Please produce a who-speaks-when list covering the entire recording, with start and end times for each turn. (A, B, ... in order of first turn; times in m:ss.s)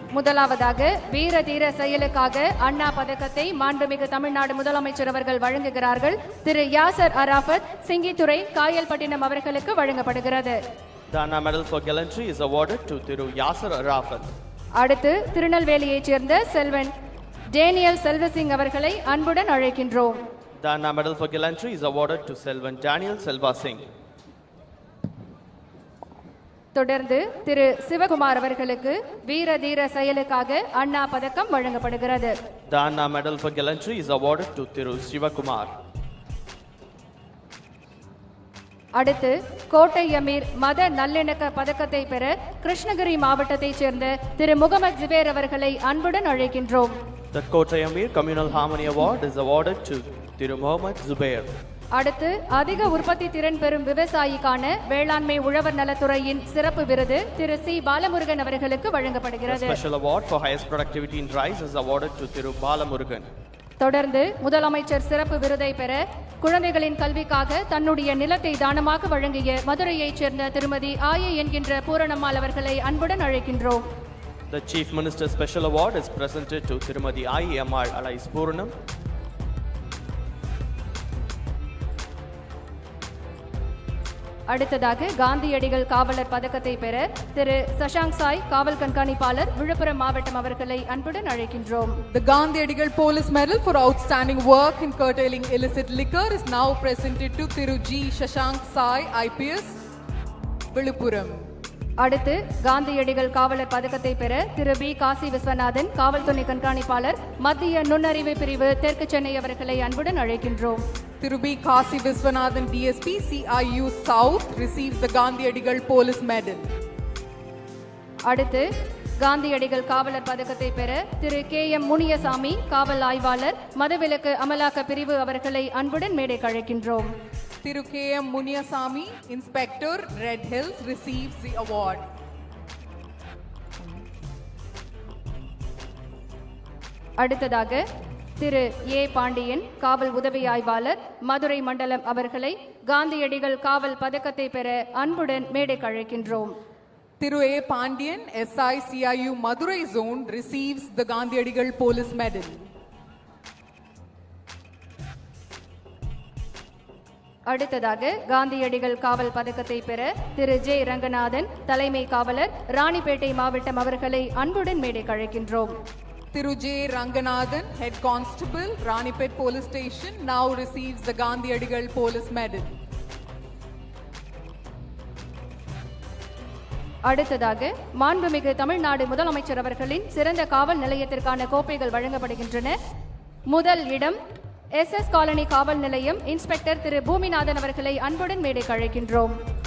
0:00.1-0:10.6 A
0:11.1-0:14.3 B
0:14.8-0:16.9 A
0:17.5-0:20.2 A
0:20.6-0:23.8 B
0:26.7-0:32.3 A
0:32.7-0:35.7 B
0:39.0-0:46.9 A
0:47.3-0:51.5 B
0:51.9-0:59.8 A
0:59.5-1:03.3 B
1:03.8-1:13.8 A
1:14.5-1:18.7 B
1:24.5-1:31.9 A
1:32.1-1:39.8 C
1:40.7-1:41.4 C
1:42.0-1:50.8 A
1:51.2-1:56.7 C
1:58.3-1:58.7 A
1:59.2-2:07.1 A
2:07.6-2:12.0 C
2:17.2-2:17.8 A
2:18.4-2:26.5 A
2:27.2-2:32.6 C
2:37.5-2:45.7 A
2:46.3-2:52.7 C
2:57.0-3:02.8 A
3:03.5-3:04.2 A
3:04.8-3:09.3 A